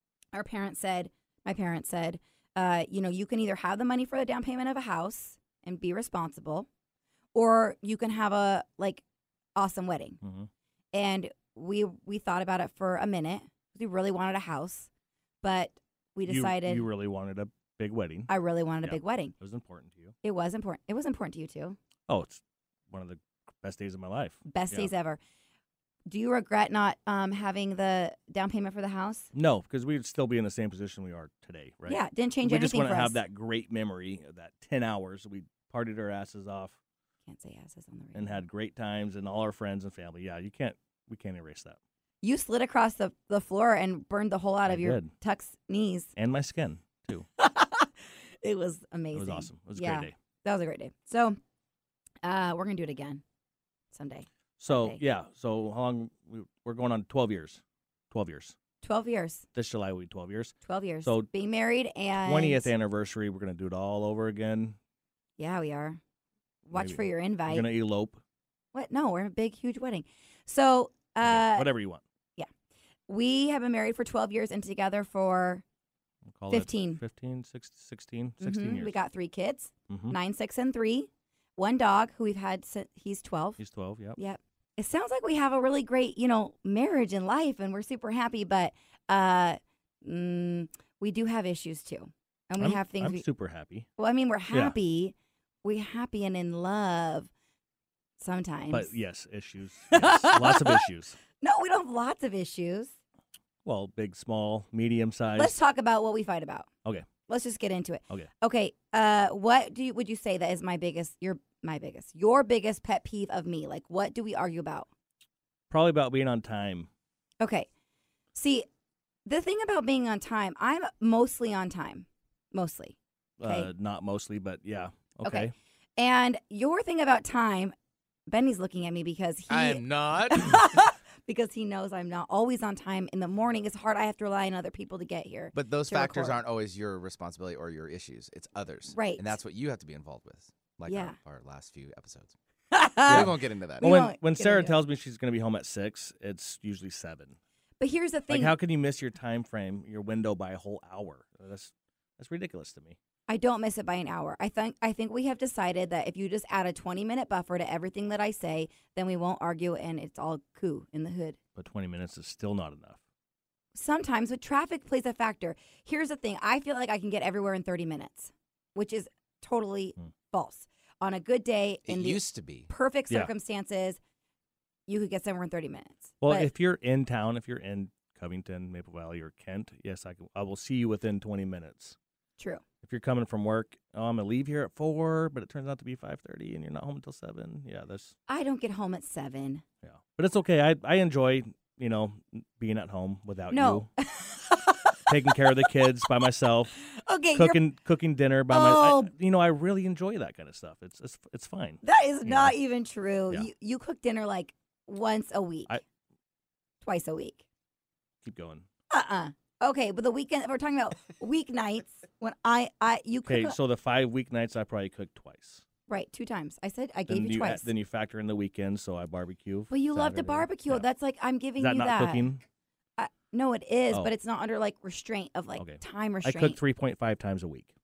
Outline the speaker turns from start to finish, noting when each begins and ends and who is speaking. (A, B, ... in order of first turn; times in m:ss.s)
0:00.3-0:06.7 A
0:07.3-0:09.0 A
0:09.6-0:10.2 A
0:10.2-0:10.5 B
0:10.9-0:14.9 A
0:15.4-0:16.9 A
0:16.3-0:18.3 B
0:18.3-0:19.3 A
0:18.8-0:20.2 B
0:20.2-0:21.8 A
0:22.1-0:24.9 B
0:24.5-0:25.2 A
0:26.1-0:29.3 A
0:29.3-0:36.8 B
0:31.9-0:33.2 A
0:37.3-0:38.4 A
0:38.2-0:41.8 B
0:42.2-0:46.1 A
0:44.7-0:45.1 B
0:46.2-0:47.3 B
0:47.4-0:51.4 A
0:49.1-0:50.1 B
0:52.2-0:53.2 A
0:53.9-0:55.0 A
0:54.6-0:58.6 B
0:58.8-0:59.5 A
0:59.6-1:01.3 B
1:00.6-1:02.7 A
1:02.2-1:04.8 B
1:05.4-1:06.0 A
1:06.7-1:07.7 A
1:06.7-1:08.2 B
1:08.7-1:11.7 A
1:11.2-1:12.0 B
1:13.1-1:15.6 A
1:16.3-1:19.0 B
1:16.5-1:17.0 A
1:18.4-1:23.6 A
1:19.9-1:20.2 B
1:23.6-1:24.2 B
1:24.2-1:33.2 A
1:32.6-1:33.9 B
1:34.0-1:37.3 A
1:38.2-1:38.9 A
1:38.7-1:41.2 B
1:39.9-1:40.8 A
1:41.4-1:42.9 A
1:43.6-1:45.6 B
1:45.4-1:46.7 A
1:47.3-1:54.9 A
1:55.7-1:56.9 B
1:57.4-1:57.7 A
1:58.3-1:58.7 A
1:59.3-2:03.7 A
2:03.4-2:05.5 B
2:05.2-2:07.8 A
2:08.3-2:16.4 A
2:09.5-2:10.8 C
2:15.5-2:22.4 C
2:18.9-2:19.4 A
2:20.9-2:21.2 A
2:22.7-2:24.8 A
2:23.0-2:23.9 C
2:23.1-2:27.4 B
2:27.8-2:28.6 A
2:28.3-2:33.0 B
2:33.3-2:41.4 A
2:41.6-2:43.0 B
2:43.8-2:54.0 A
2:51.9-2:52.7 C
2:54.9-2:56.5 A
2:56.2-3:02.0 B
3:02.4-3:02.6 A
3:02.8-3:08.1 B
3:08.3-3:09.6 A
3:09.8-3:13.9 B
3:13.5-3:15.1 A
3:15.1-3:16.8 B
3:16.8-3:17.6 A
3:17.4-3:22.6 B
3:18.5-3:19.1 A
3:21.8-3:25.8 A
3:26.8-3:27.4 A
3:28.2-3:28.7 B
3:28.9-3:33.6 A
3:33.3-3:35.6 B
3:35.9-3:37.7 A
3:37.1-3:40.8 B
3:39.7-3:42.3 A
3:41.6-3:42.4 B
3:43.0-3:46.6 A
3:45.6-3:47.7 B